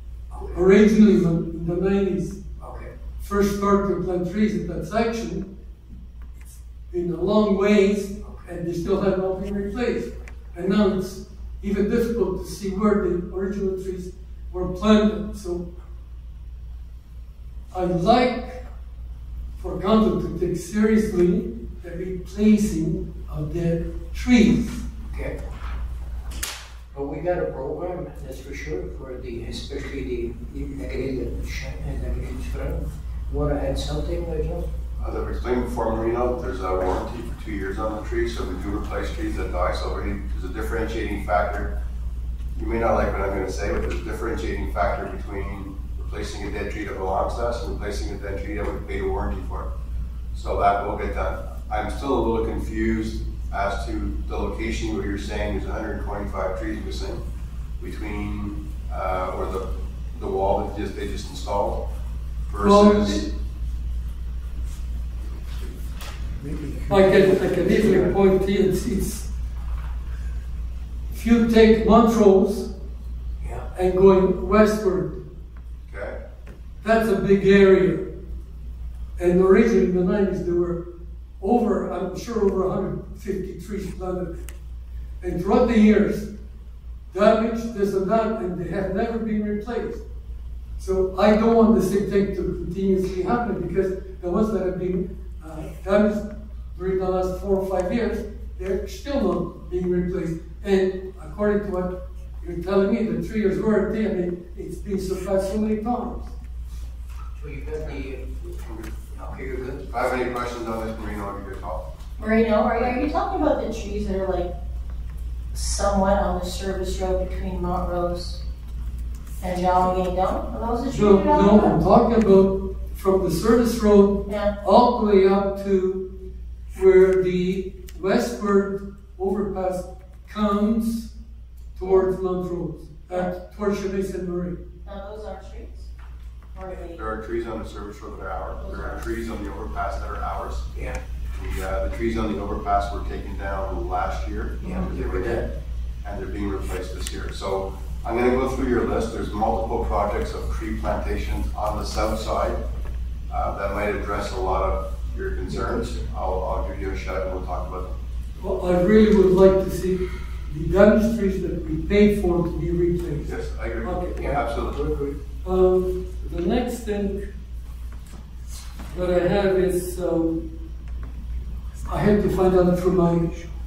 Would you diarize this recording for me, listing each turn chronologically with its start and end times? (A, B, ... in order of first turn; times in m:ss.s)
0:00.3-0:00.6 A
0:00.4-0:02.4 B
0:02.6-0:02.9 A
0:03.2-0:05.5 B
0:06.9-0:15.7 B
0:08.2-0:08.5 A
0:17.7-0:18.6 B
0:19.6-0:24.8 B
0:25.1-0:25.4 A
0:26.9-0:34.7 A
0:35.0-0:41.7 C
0:42.5-0:49.7 C
0:50.3-0:57.2 C
0:57.8-1:01.8 C
1:02.5-1:03.2 C
1:02.6-1:03.3 B
1:06.9-1:09.3 B
1:07.5-1:08.1 C
1:11.1-1:12.7 B
1:13.4-1:13.7 A
1:13.7-1:15.2 B
1:15.9-1:16.2 C
1:16.8-1:18.1 B
1:19.2-1:20.8 B
1:21.4-1:24.4 B
1:25.2-1:26.3 B
1:27.1-1:30.0 B
1:30.8-1:46.3 B
1:47.3-1:48.4 A
1:48.6-1:48.9 C
1:49.1-1:49.8 A
1:49.9-1:51.9 C
1:52.2-1:54.5 D
1:52.6-1:53.1 C
1:55.5-1:58.4 D
1:59.4-2:01.8 D
2:00.9-2:06.1 B
2:04.3-2:04.6 D
2:06.7-2:11.1 B
2:11.8-2:14.6 B
2:11.8-2:12.1 D
2:13.0-2:13.4 D
2:14.8-2:15.9 D
2:16.5-2:17.0 D
2:16.9-2:20.7 C
2:18.6-2:19.1 D
2:20.7-2:21.0 A
2:21.3-2:25.4 C
2:24.6-2:25.4 A
2:26.0-2:32.6 C
2:33.3-2:37.9 C
2:35.5-2:36.0 A
2:38.4-2:44.3 B
2:43.2-2:44.8 C
2:44.2-2:45.2 A
2:45.4-2:47.3 B
2:48.9-2:50.5 B
2:51.8-2:53.3 B